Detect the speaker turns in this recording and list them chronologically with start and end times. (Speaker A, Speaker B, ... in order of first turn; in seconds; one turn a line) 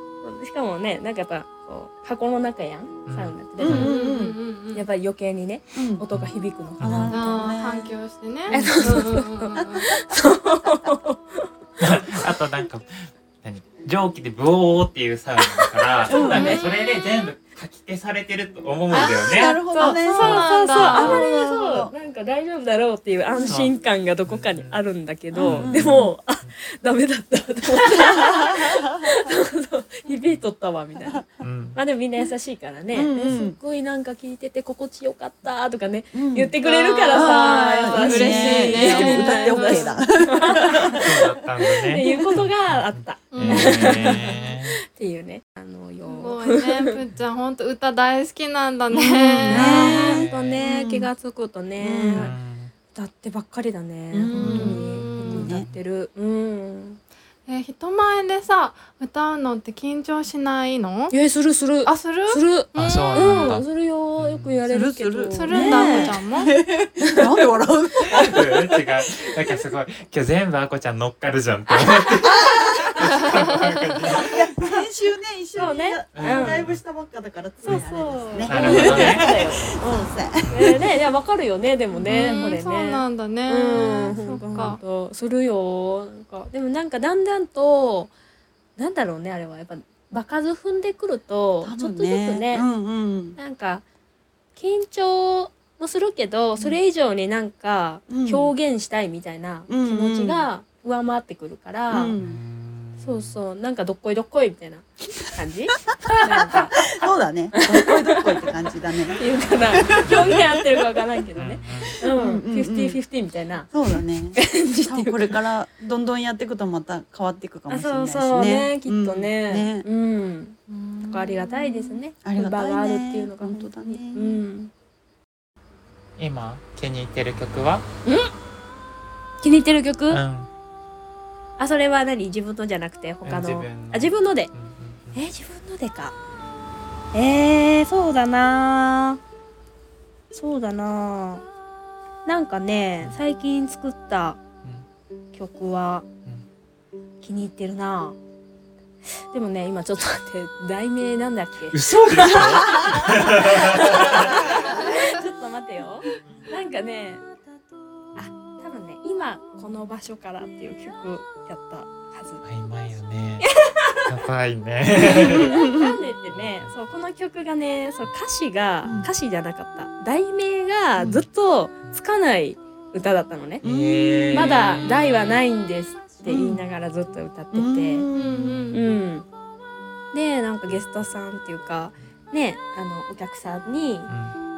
Speaker A: 0.2-7.4
Speaker B: 3.1-3.9
Speaker C: 3.6-4.4
Speaker D: 3.6-4.8
Speaker C: 5.7-6.0
Speaker B: 6.1-7.1
Speaker C: 6.8-7.9
Speaker D: 7.1-10.1
Speaker A: 8.5-11.5
Speaker B: 11.8-19.6
Speaker C: 16.1-16.6
Speaker A: 16.1-16.6
Speaker D: 16.3-16.7
Speaker D: 18.9-21.2
Speaker C: 18.9-21.9
Speaker A: 19.8-47.0
Speaker B: 23.5-24.8
Speaker C: 25.3-26.1
Speaker B: 25.4-26.1
Speaker C: 28.1-29.1
Speaker B: 31.4-31.8
Speaker C: 32.9-33.6
Speaker C: 36.1-36.5
Speaker D: 36.6-39.9
Speaker C: 37.1-41.2
Speaker B: 40.9-44.8
Speaker D: 43.3-44.5
Speaker D: 46.0-50.0
Speaker C: 48.9-51.1
Speaker A: 49.5-52.3
Speaker B: 49.6-50.6
Speaker C: 51.8-52.3
Speaker B: 52.1-52.7
Speaker A: 52.9-57.0
Speaker C: 54.1-55.7
Speaker D: 54.3-55.5
Speaker D: 57.5-61.1
Speaker A: 61.1-66.1
Speaker D: 61.8-63.6
Speaker B: 62.7-63.6
Speaker B: 64.2-64.5
Speaker C: 64.7-69.2
Speaker D: 65.4-66.5
Speaker B: 68.1-74.4
Speaker C: 72.3-72.9
Speaker C: 74.1-81.0
Speaker A: 75.5-76.6
Speaker B: 76.2-76.8
Speaker A: 77.6-88.1
Speaker B: 78.4-79.3
Speaker B: 80.4-80.8
Speaker C: 82.0-82.5
Speaker D: 82.0-84.8
Speaker B: 83.7-84.4
Speaker A: 88.8-92.7
Speaker C: 91.6-93.4
Speaker A: 93.3-93.8
Speaker A: 94.5-102.2
Speaker C: 98.1-98.5
Speaker C: 99.7-100.5
Speaker C: 101.9-102.4
Speaker B: 102.2-103.4
Speaker A: 103.0-106.9
Speaker C: 106.2-109.2
Speaker A: 107.5-108.5
Speaker A: 109.1-113.7
Speaker C: 109.7-111.0
Speaker B: 111.3-112.0
Speaker C: 112.0-113.0
Speaker C: 113.7-119.8
Speaker A: 114.3-115.4
Speaker A: 117.7-124.7
Speaker C: 120.7-124.4
Speaker B: 126.2-127.8
Speaker A: 128.0-128.3
Speaker A: 129.4-130.2
Speaker B: 130.1-130.5
Speaker A: 131.6-134.5
Speaker B: 133.2-135.2
Speaker A: 135.1-136.2
Speaker A: 137.1-139.2
Speaker A: 140.3-141.4
Speaker A: 142.2-144.4
Speaker A: 145.3-146.1
Speaker A: 147.2-148.2
Speaker A: 149.1-157.2
Speaker B: 151.7-154.4
Speaker C: 152.7-153.0
Speaker C: 154.2-154.8
Speaker D: 154.7-155.1
Speaker A: 158.2-162.4
Speaker B: 162.4-163.5
Speaker A: 163.4-164.1
Speaker B: 164.1-165.5
Speaker C: 165.1-165.9
Speaker A: 165.2-173.6
Speaker B: 166.3-166.7
Speaker C: 173.6-174.4
Speaker B: 173.6-175.4
Speaker A: 174.3-178.1
Speaker C: 176.2-176.6
Speaker C: 177.5-178.5
Speaker B: 178.2-178.9
Speaker D: 178.2-178.8
Speaker A: 178.7-179.3
Speaker A: 180.1-184.1
Speaker B: 184.1-184.3